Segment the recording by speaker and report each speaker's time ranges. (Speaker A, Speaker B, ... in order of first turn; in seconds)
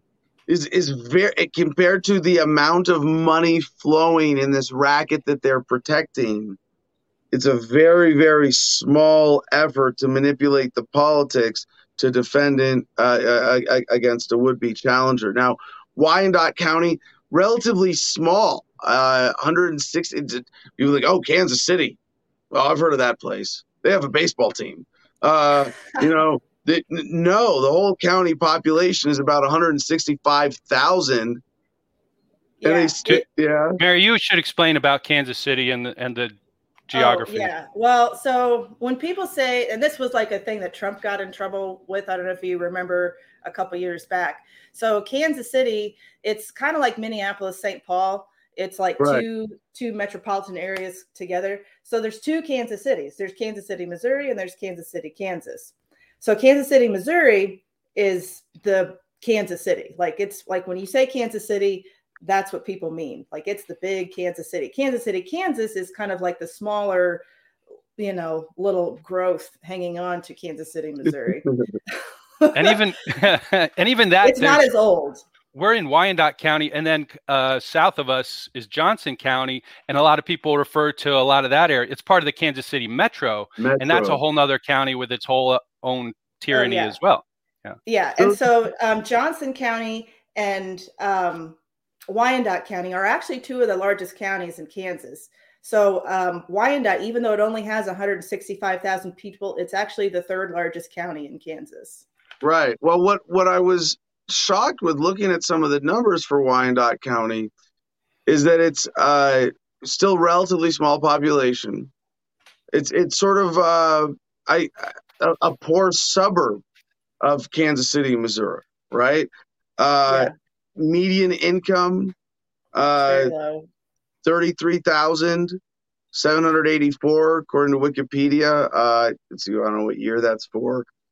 Speaker A: 0.5-6.6, 7.3-22.0, 22.5-31.4, 32.6-33.8, 49.0-49.2, 71.0-71.8, 83.6-84.2, 88.2-88.5, 102.4-107.5, 108.3-111.9, 112.7-116.6, 117.2-122.2, 122.8-123.3, 124.2-125.6, 126.1-130.9
Speaker B: 32.6-33.0, 36.9-67.2, 68.0-71.4, 72.4-72.8, 74.2-75.2, 86.5-87.0, 87.9-91.6, 92.1-102.0, 120.1-120.3, 123.0-123.7
Speaker C: 33.8-36.4, 36.9-37.5, 72.5-74.7, 75.5-87.8